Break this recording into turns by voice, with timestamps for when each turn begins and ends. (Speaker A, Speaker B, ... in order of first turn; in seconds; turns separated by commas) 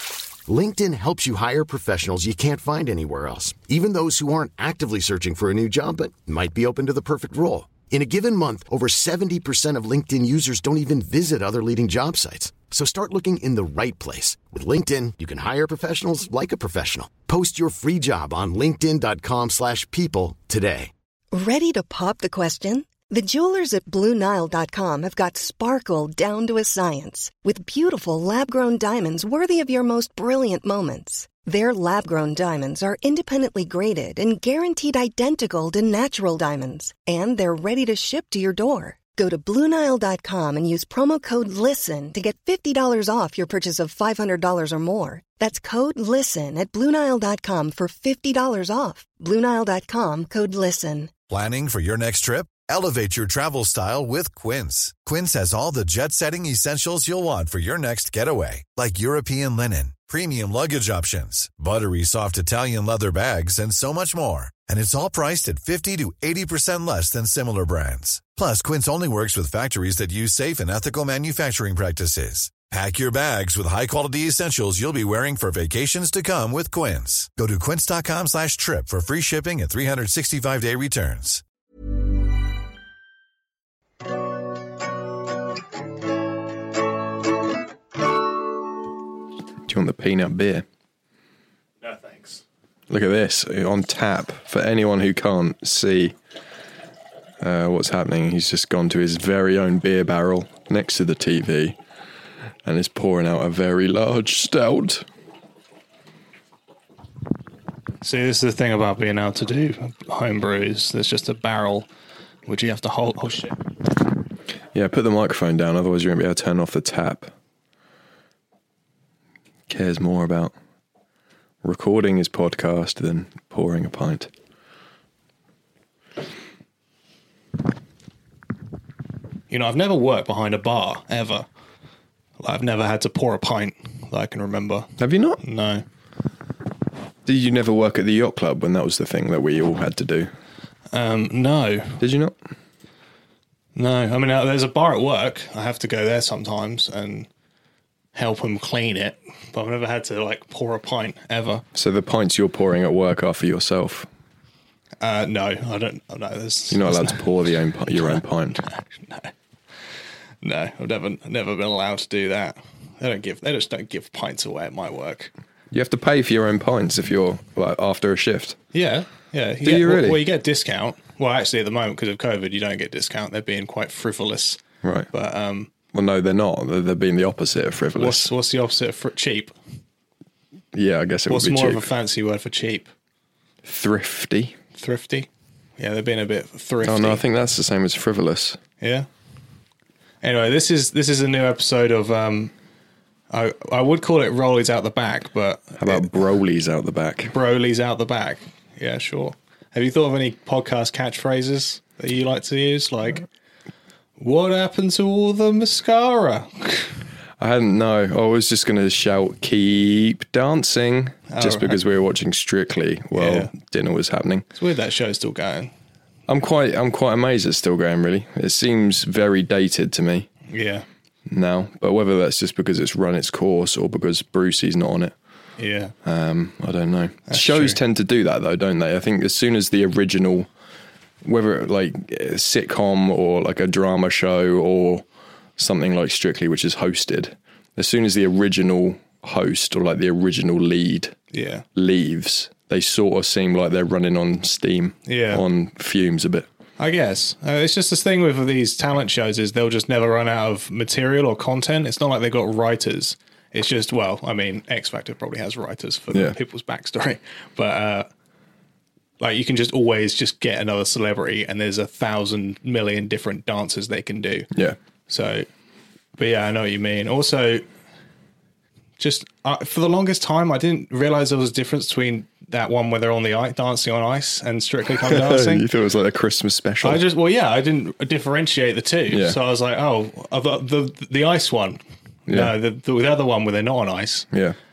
Speaker A: 0.5-20.9, Speaker B: 21.3-51.1, Speaker C: 51.3-81.4, Speaker D: 89.7-90.6, Speaker E: 91.8-92.4, Speaker D: 92.9-96.1, Speaker D: 97.4-101.8, Speaker D: 102.6-105.0, Speaker E: 108.0-111.9, Speaker E: 112.5-113.6, Speaker D: 114.7-117.3, Speaker D: 119.7-120.5, Speaker D: 121.6-124.3, Speaker E: 129.5-131.4, Speaker E: 132.4-135.8, Speaker D: 135.0-135.4, Speaker D: 137.2-140.3, Speaker E: 140.9-142.0, Speaker D: 142.0-142.3, Speaker E: 143.8-147.3, Speaker E: 148.1-151.6, Speaker D: 151.7-154.1, Speaker E: 155.0-159.3, Speaker D: 156.7-158.6, Speaker E: 160.4-165.3, Speaker D: 165.7-168.6, Speaker E: 168.7-174.6, Speaker D: 169.6-170.2, Speaker D: 174.8-175.1, Speaker E: 175.1-175.7, Speaker D: 175.9-178.3, Speaker E: 177.9-179.5, Speaker D: 180.7-181.9, Speaker E: 181.3-182.9, Speaker D: 183.6-184.6, Speaker E: 184.7-187.2, Speaker D: 186.8-188.6, Speaker E: 188.8-189.1, Speaker E: 190.2-192.5, Speaker E: 193.3-196.0, Speaker D: 195.8-197.3, Speaker E: 197.3-203.2, Speaker E: 204.2-207.0, Speaker D: 207.4-214.4, Speaker E: 211.3-211.8, Speaker E: 213.1-213.5, Speaker E: 214.6-215.7, Speaker D: 216.3-220.3, Speaker E: 220.5-220.8, Speaker D: 221.3-225.1, Speaker E: 225.6-225.9, Speaker D: 226.0-230.5, Speaker E: 227.3-227.8, Speaker D: 231.2-235.0, Speaker D: 235.6-241.2, Speaker E: 241.3-241.7, Speaker D: 241.7-246.5, Speaker E: 245.1-245.4, Speaker E: 246.8-258.1, Speaker E: 259.2-264.5, Speaker E: 265.1-265.5, Speaker E: 266.2-267.6, Speaker E: 269.0-275.6, Speaker D: 275.0-277.0, Speaker E: 276.8-284.3, Speaker D: 279.1-279.4, Speaker D: 282.3-282.5